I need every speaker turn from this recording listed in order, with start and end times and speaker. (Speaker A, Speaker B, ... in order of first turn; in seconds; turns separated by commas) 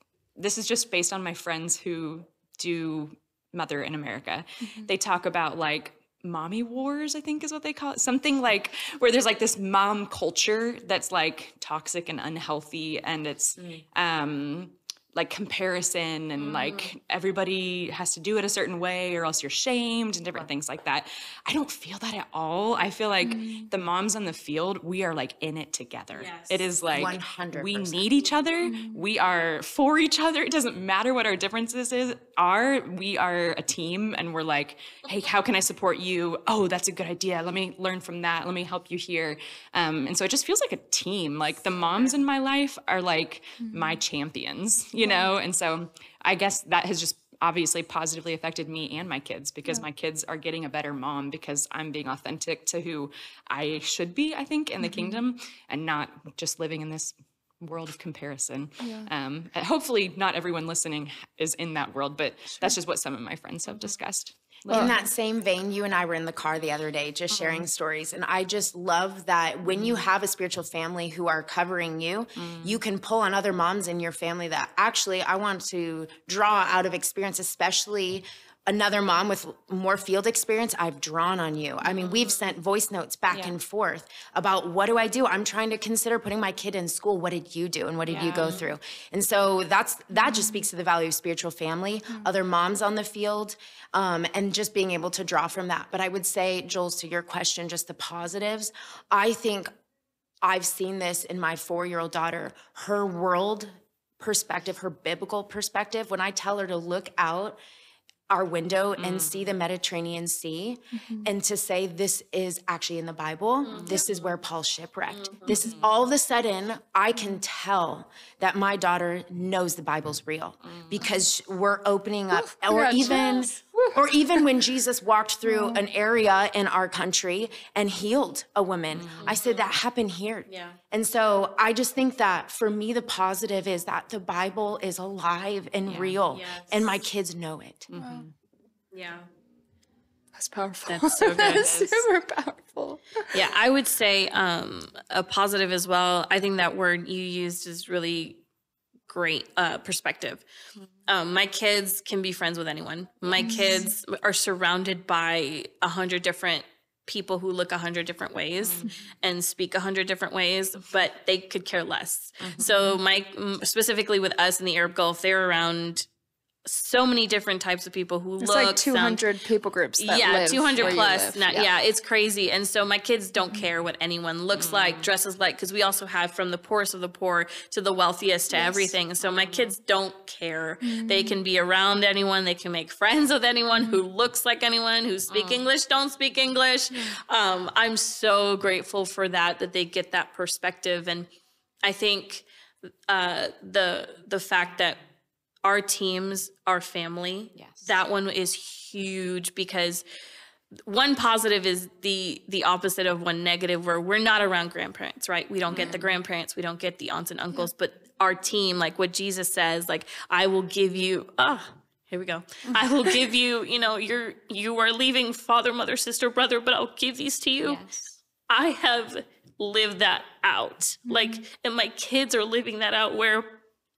Speaker A: 0.4-65.0, Speaker B: 16.4-16.9, Speaker C: 23.2-23.7, Speaker B: 26.1-26.8, Speaker D: 26.9-28.2, Speaker C: 28.6-29.0, Speaker B: 41.7-42.2, Speaker C: 43.6-44.0, Speaker C: 45.0-45.3, Speaker C: 54.8-55.2, Speaker C: 58.8-59.1, Speaker D: 64.7-99.7, Speaker C: 64.7-65.0, Speaker A: 67.3-67.6, Speaker A: 69.7-70.0, Speaker A: 72.4-72.8, Speaker B: 82.0-82.3, Speaker A: 83.3-83.5, Speaker A: 88.1-88.7, Speaker C: 90.2-90.5, Speaker D: 100.4-107.6, Speaker D: 108.3-137.9, Speaker A: 109.0-109.5, Speaker C: 111.0-111.3, Speaker B: 113.7-114.0, Speaker B: 115.1-115.5, Speaker A: 115.5-115.9, Speaker C: 122.5-123.4, Speaker B: 123.0-123.5, Speaker C: 125.5-125.8, Speaker A: 128.9-129.4, Speaker B: 129.2-129.7, Speaker B: 130.5-130.8, Speaker A: 135.9-136.2, Speaker B: 136.3-137.0, Speaker A: 137.9-138.3, Speaker C: 138.0-138.3, Speaker B: 138.9-139.3, Speaker C: 140.4-143.3, Speaker B: 140.9-141.7, Speaker A: 141.4-142.1, Speaker B: 143.3-148.4, Speaker B: 149.1-150.4, Speaker B: 151.1-166.1, Speaker C: 153.3-153.9, Speaker A: 158.7-158.9, Speaker A: 162.4-162.7, Speaker B: 166.7-169.2, Speaker C: 168.4-171.7, Speaker B: 170.0-191.3, Speaker A: 170.8-171.1, Speaker A: 174.6-175.1, Speaker C: 178.5-178.9, Speaker C: 180.8-181.4, Speaker A: 185.3-185.6, Speaker B: 191.8-192.4, Speaker B: 193.1-195.0, Speaker B: 195.6-200.0, Speaker A: 197.6-197.9, Speaker B: 200.9-217.8, Speaker A: 217.6-218.2, Speaker B: 218.5-223.6, Speaker C: 221.1-221.4